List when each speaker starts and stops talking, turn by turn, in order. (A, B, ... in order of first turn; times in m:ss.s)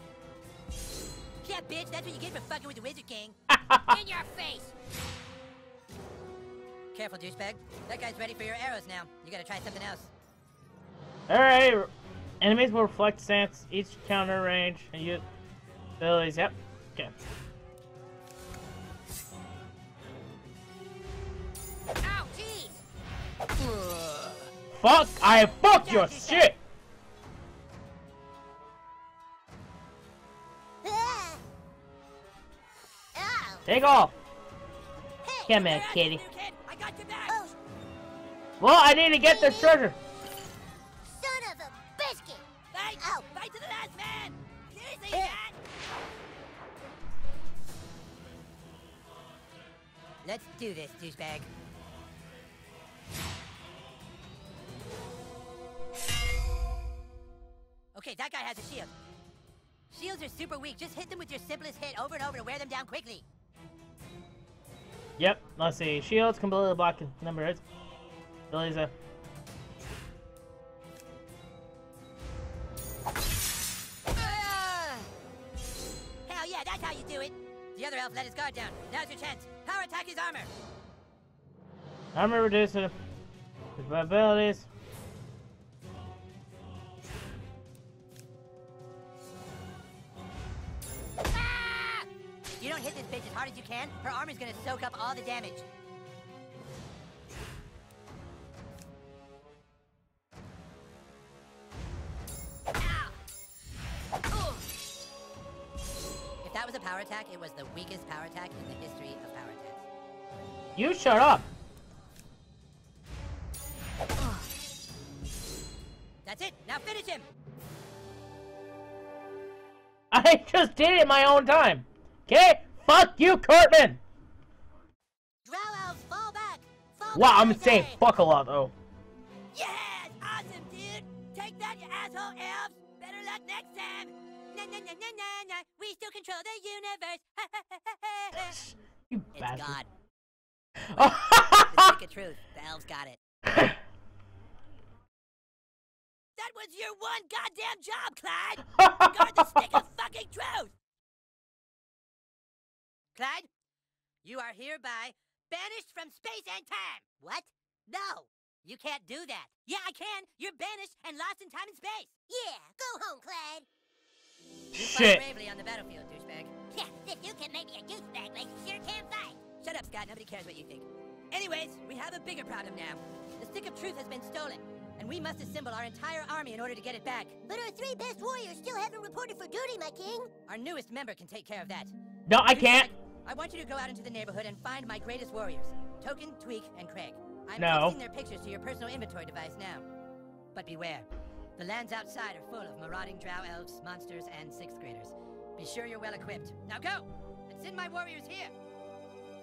0:01.4-0:03.4 A
0:03.5-0:04.0 B
0:03.9-0:04.7 C
0:06.9-0:10.1 A
0:11.3-0:15.2 B
0:16.0-0:17.1 B
0:22.0-0:22.8 C
0:24.7-0:26.6 B
0:25.4-0:26.5 A
0:30.8-0:31.4 C
0:33.1-0:33.7 C
0:33.6-0:34.1 B
0:35.2-0:35.6 C
0:35.5-0:36.2 B
0:35.5-0:37.4 A
0:37.3-0:37.5 C
0:38.6-0:40.0 B
0:39.2-0:39.8 C
0:41.0-0:42.4 C
0:42.7-0:45.6 A
0:43.0-0:43.2 C
0:45.1-0:45.4 C
0:50.2-0:51.5 A
0:57.9-0:58.9 A
0:59.9-1:03.2 A
1:05.2-1:07.6 B
1:08.5-1:08.9 B
1:14.2-1:15.0 A
1:16.2-1:20.5 A
1:22.1-1:22.9 B
1:23.8-1:24.7 B
1:31.3-1:32.0 A
1:32.6-1:35.7 A
1:46.4-1:49.8 A
1:50.8-1:51.5 B
1:56.2-1:57.3 A
2:00.1-2:04.0 B
2:05.4-2:08.0 C
2:07.1-2:08.7 B
2:09.5-2:18.6 A
2:18.4-2:19.8 B
2:19.3-2:19.9 A
2:20.9-2:21.8 B
2:20.9-2:23.2 A
2:26.4-2:30.7 A
2:28.8-2:29.6 B
2:33.1-2:33.5 A
2:34.2-2:42.1 A
2:42.3-2:43.6 C
2:44.7-2:45.2 B
2:44.7-2:46.5 A
2:46.7-2:49.4 C
2:49.6-2:57.4 A
2:57.5-3:00.3 C
3:00.4-3:01.9 A
3:02.3-3:02.9 B
3:02.5-3:09.8 A
3:07.6-3:08.0 B
3:10.5-3:18.5 A